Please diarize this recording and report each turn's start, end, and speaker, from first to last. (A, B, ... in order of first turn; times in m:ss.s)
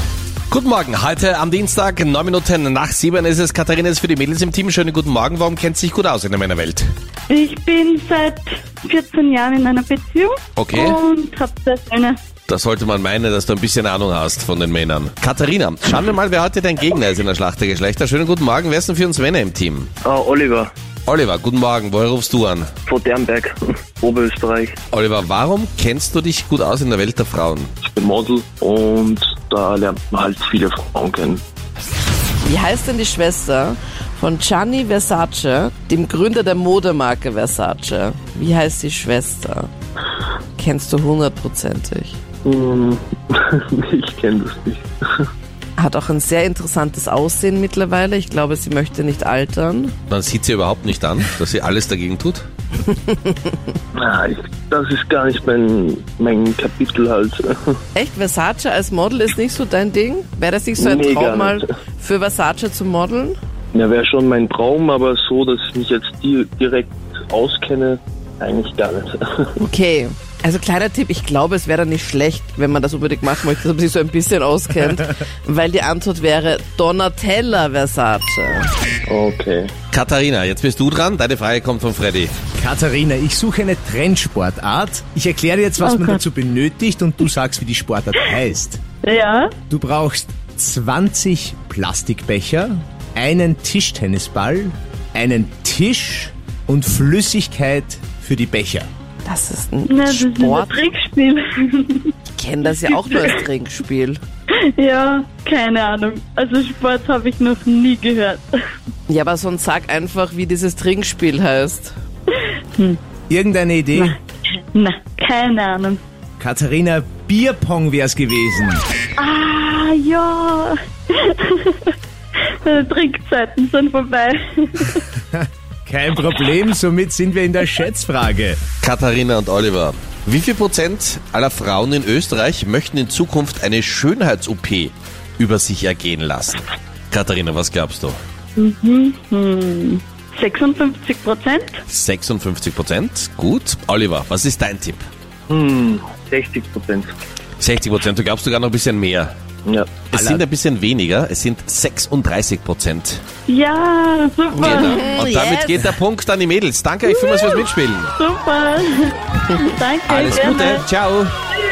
0:00.5-0:06.9 A
0:07.3-0:12.2 B
0:10.6-0:11.0 A
0:12.5-0:19.9 A
0:20.0-0:20.7 C
0:21.1-0:22.7 A
0:22.9-0:24.8 C
0:24.9-0:27.7 A
0:27.8-0:31.4 C
0:32.4-0:39.7 D
0:40.6-0:42.2 D
0:42.4-0:44.9 C
0:45.8-0:49.9 D
0:50.1-0:52.4 A
0:52.9-0:53.5 D
0:53.9-0:57.5 C
0:57.9-1:03.4 D
1:00.8-1:01.6 C
1:03.7-1:09.5 C
1:09.6-1:18.7 D
1:19.1-1:19.7 C
1:19.9-1:22.3 A
1:22.6-1:28.8 E
1:25.8-1:26.2 B
1:29.0-1:29.5 B
1:29.7-1:38.9 E
1:39.2-1:40.8 D
1:39.9-1:42.1 B
1:42.3-1:44.2 D
1:42.8-1:43.3 B
1:44.6-1:48.5 B
1:49.1-1:51.9 D
1:53.3-1:54.2 E
1:54.7-1:56.0 B
1:56.4-1:58.8 E
1:59.2-2:01.9 B
2:02.5-2:05.0 B
2:05.3-2:08.6 E
2:08.8-2:18.2 A
2:18.6-2:21.8 B
2:21.9-2:25.0 A
2:25.5-2:27.1 C
2:27.6-2:29.3 A
2:29.6-2:29.9 C
2:30.1-2:33.2 A
2:30.1-2:30.4 E
2:33.5-2:35.1 B
2:34.6-2:36.0 D
2:34.6-2:38.1 A
2:37.1-2:37.6 B
2:38.2-2:40.8 B
2:40.1-2:41.3 A